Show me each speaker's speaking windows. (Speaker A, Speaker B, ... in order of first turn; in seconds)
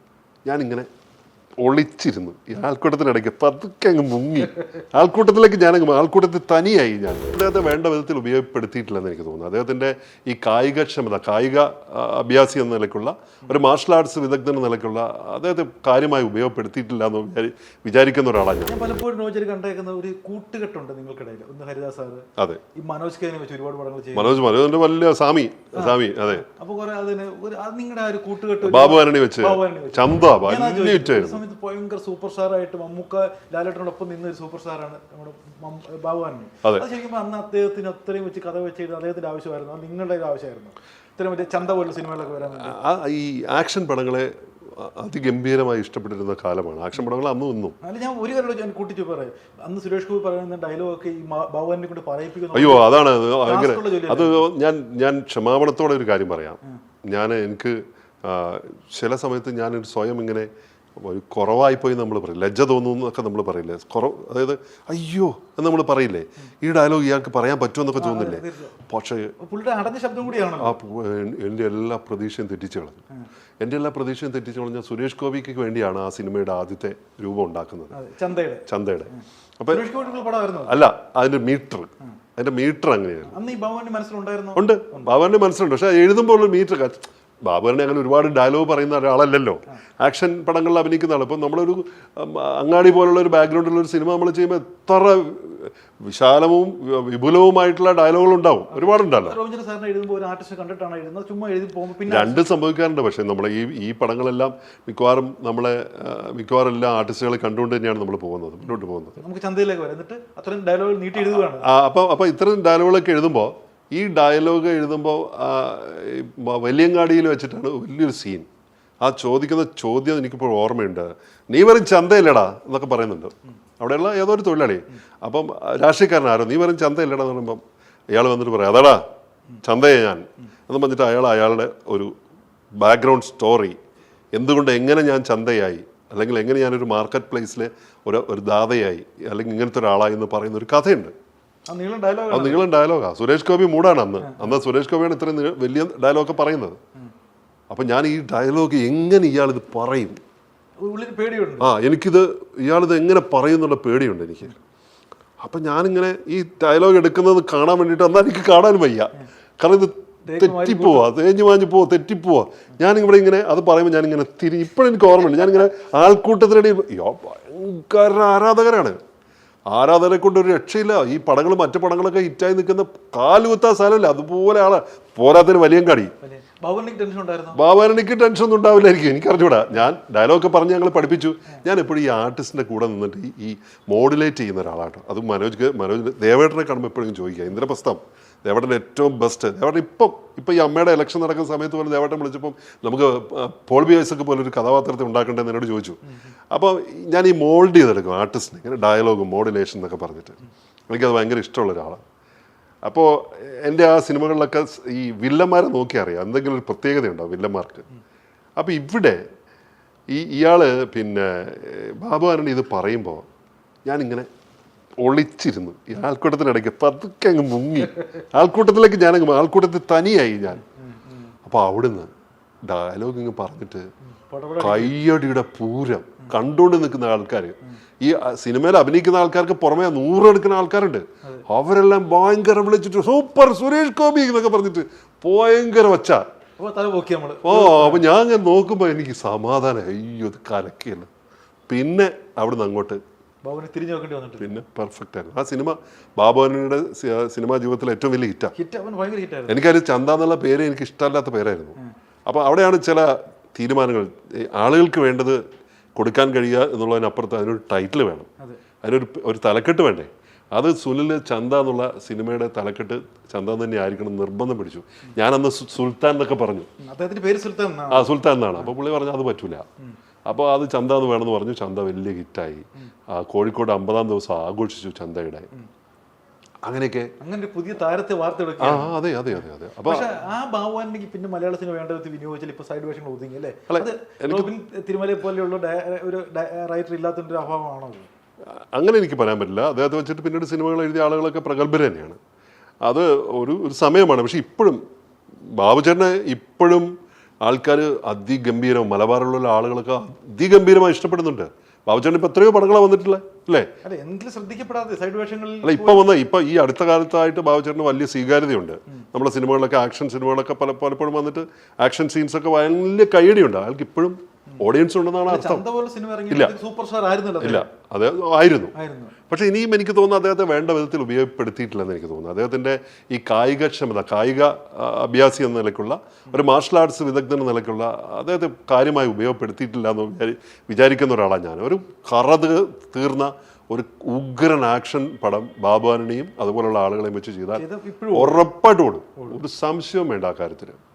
Speaker A: 0.5-0.9, 1.6-18.8, 24.1-26.4, 28.6-31.4, 42.5-47.8, 52.5-69.3, 70.6-73.0, 73.6-77.9, 78.7-79.8, 80.7-83.4, 84.5-99.4, 102.1-109.2, 111.3-118.5, 119.0-127.6, 128.1-129.0, 129.6-132.1, 132.8-133.8, 134.3-141.1, 142.3-146.8, 147.7-150.2, 151.6-154.6, 155.4-169.0, 169.7-176.1, 177.5-200.4, 200.9-202.0, 202.8-207.8, 208.6-209.2, 210.1-213.2, 213.8-214.3, 215.0-220.6, 221.4-222.1, 222.7-223.9, 224.6-236.3, 237.4-241.1, 241.7-243.0, 244.4-248.5, 249.5-255.4, 256.0-258.3, 258.8-266.7, 267.9-269.6, 270.3-275.5, 276.6-277.1, 278.6-280.1, 283.7-284.5, 288.5-292.2, 292.8-294.8, 295.5-296.9, 297.4-303.7, 305.6-315.6, 317.4-318.7, 319.3-340.8
Speaker B: 18.7-24.4, 25.7-42.8, 47.8-54.5, 68.0-68.7, 69.4-70.7, 77.9-80.8, 83.3-85.1, 98.7-102.4, 109.2-111.7, 141.7-142.6, 144.2-144.5, 150.8-151.7, 160.3-161.1, 176.2-177.6, 220.7-221.3, 224.1-224.9, 236.6-238.0, 243.4-244.6, 248.5-249.6, 266.8-268.7, 277.2-279.0, 279.8-288.1, 303.8-306.1, 315.2-317.7, 318.7-319.1, 337.6-338.4